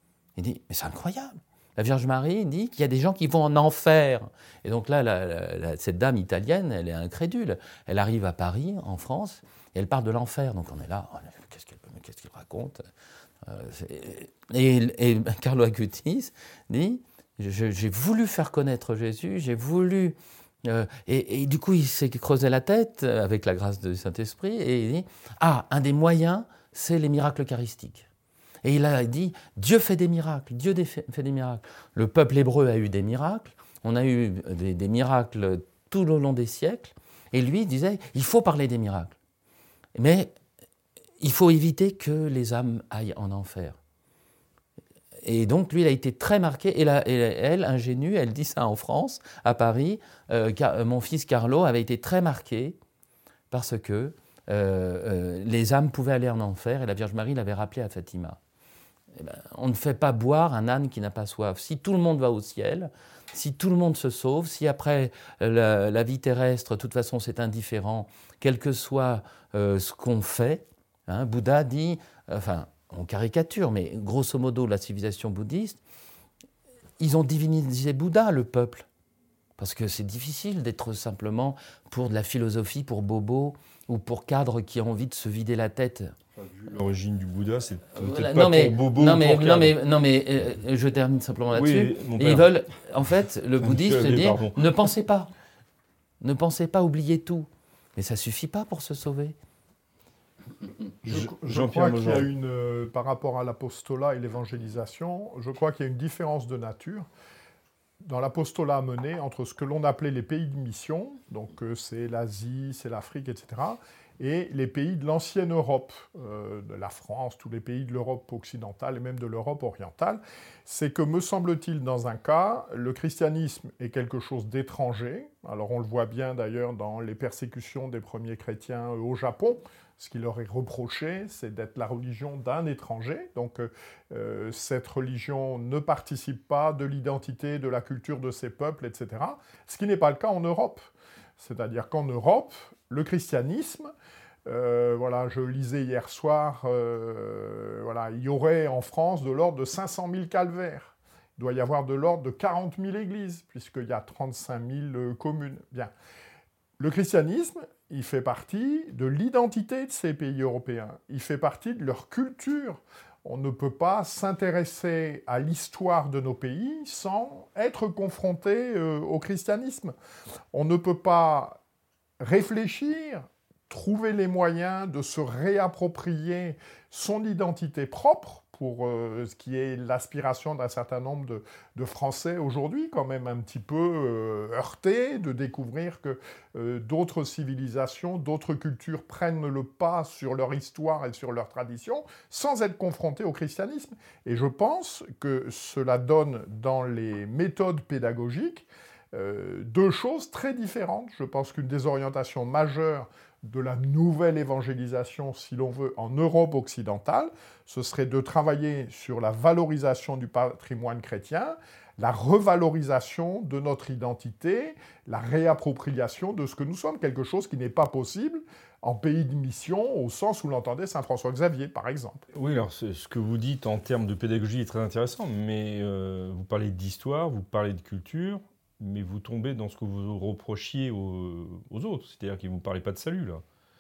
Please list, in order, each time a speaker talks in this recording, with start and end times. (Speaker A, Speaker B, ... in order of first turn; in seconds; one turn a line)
Speaker A: 0.3-12.8
Speaker A: 13.4-28.1
Speaker A: 28.6-39.1
Speaker A: 39.9-40.3
Speaker A: 41.2-43.8
Speaker A: 45.2-52.8
Speaker A: 53.5-58.4
Speaker A: 59.1-75.8
Speaker A: 77.0-78.9
Speaker A: 79.6-86.1
Speaker B: 86.4-89.8
Speaker A: 87.9-95.3
Speaker B: 91.5-92.5
Speaker B: 93.6-94.6
Speaker A: 96.2-99.3
Speaker C: 101.0-107.1
Speaker B: 101.0-102.3
Speaker C: 108.0-143.9
Speaker C: 144.4-155.9
Speaker C: 156.8-169.9
Speaker C: 170.5-171.6
Speaker C: 172.2-222.2
Speaker B: 222.3-233.4